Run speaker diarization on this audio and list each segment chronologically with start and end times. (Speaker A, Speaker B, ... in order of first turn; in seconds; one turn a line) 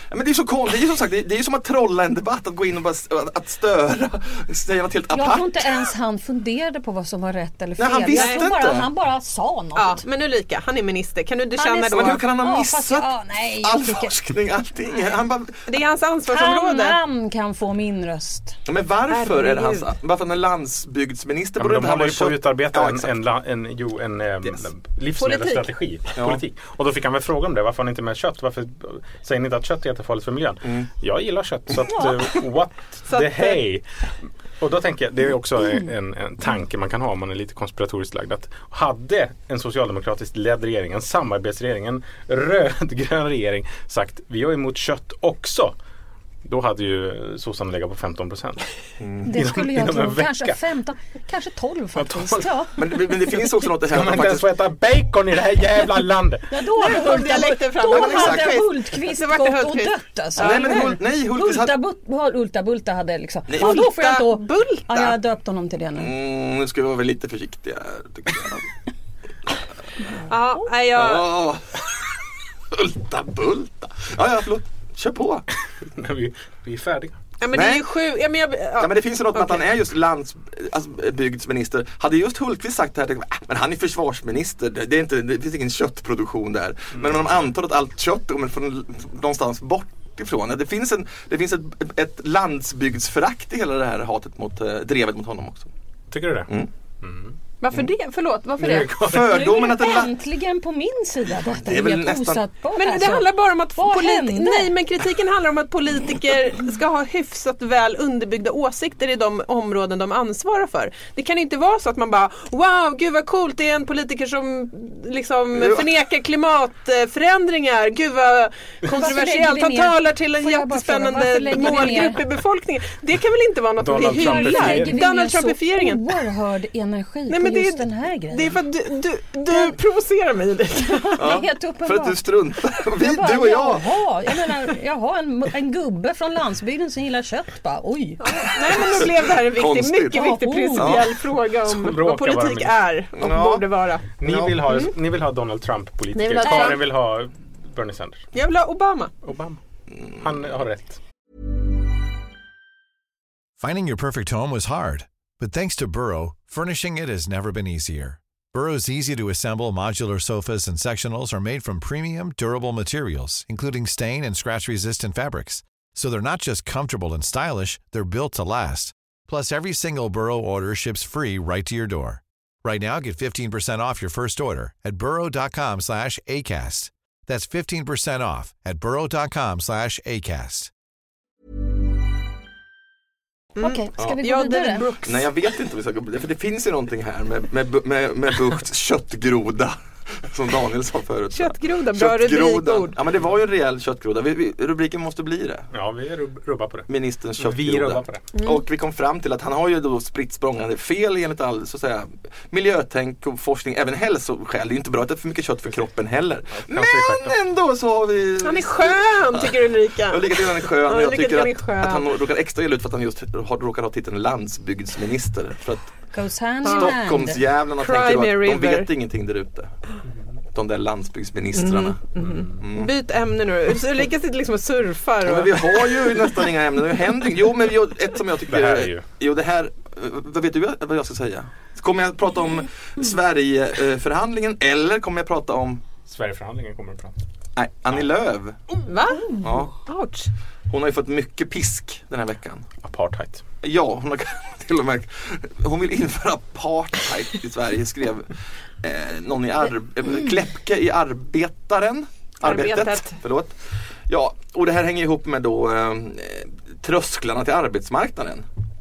Speaker A: 0.1-5.6
Speaker B: 5.1-10.0
Speaker A: 7.8-8.9
Speaker C: 8.1-8.4
Speaker C: 9.8-12.2
Speaker B: 11.6-14.1
Speaker A: 11.9-13.1
Speaker A: 13.6-15.6
Speaker C: 15.7-17.0
Speaker B: 16.3-18.6
Speaker A: 18.7-23.1
Speaker C: 19.1-19.9
Speaker D: 21.6-33.8
Speaker C: 25.2-25.7
Speaker A: 26.2-26.4
Speaker C: 33.1-33.6
Speaker D: 34.6-45.8
Speaker D: 46.4-48.7
Speaker A: 49.0-49.3
Speaker B: 49.2-53.1
Speaker D: 49.3-50.6
Speaker D: 52.0-52.6
Speaker A: 52.8-54.5
Speaker D: 53.8-56.6
Speaker B: 56.5-66.1
Speaker C: 56.8-61.0
Speaker A: 57.9-58.6
Speaker A: 60.4-61.7
Speaker A: 63.5-63.8
Speaker C: 63.6-65.2
Speaker A: 66.0-68.6
Speaker C: 70.3-71.4
Speaker A: 70.9-72.0
Speaker A: 72.7-75.5
Speaker D: 75.8-77.2
Speaker C: 77.4-79.6
Speaker A: 77.5-77.8
Speaker A: 78.8-95.7
Speaker D: 96.1-96.5
Speaker D: 97.0-97.3
Speaker C: 97.6-99.0
Speaker D: 98.6-99.6
Speaker A: 99.0-100.1
Speaker B: 99.2-104.7
Speaker A: 101.6-102.4
Speaker C: 102.8-126.1
Speaker A: 115.6-115.9
Speaker B: 118.9-122.2
Speaker D: 123.8-125.0
Speaker B: 124.1-128.6
Speaker C: 127.3-131.2
Speaker B: 129.5-129.8
Speaker B: 130.8-132.2
Speaker A: 131.2-133.9
Speaker B: 133.0-139.0
Speaker C: 138.2-144.1
Speaker A: 138.8-141.1
Speaker B: 140.1-141.0
Speaker D: 141.7-142.8
Speaker A: 143.2-143.7
Speaker D: 144.2-148.2
Speaker A: 144.2-144.7
Speaker C: 146.2-146.8
Speaker C: 148.3-149.1
Speaker D: 149.2-149.6
Speaker D: 150.2-151.0
Speaker E: 153.6-180.7
Speaker B: 183.6-184.9
Speaker C: 183.6-185.2
Speaker A: 185.0-195.7
Speaker C: 191.3-193.0
Speaker D: 195.7-198.3
Speaker A: 196.9-215.9
Speaker C: 198.3-198.6
Speaker D: 206.5-207.4
Speaker C: 208.4-212.2
Speaker B: 216.1-217.4
Speaker C: 216.7-216.9
Speaker A: 216.7-219.7
Speaker C: 217.8-218.9
Speaker A: 220.5-222.0
Speaker C: 221.6-226.4
Speaker D: 222.2-222.6
Speaker A: 222.6-222.9
Speaker A: 225.2-235.8
Speaker D: 228.5-229.1
Speaker D: 236.1-237.2
Speaker A: 237.6-238.8
Speaker C: 238.9-240.3
Speaker A: 239.4-239.8
Speaker A: 240.7-242.7
Speaker D: 242.8-243.4
Speaker A: 243.6-258.5
Speaker C: 252.4-253.2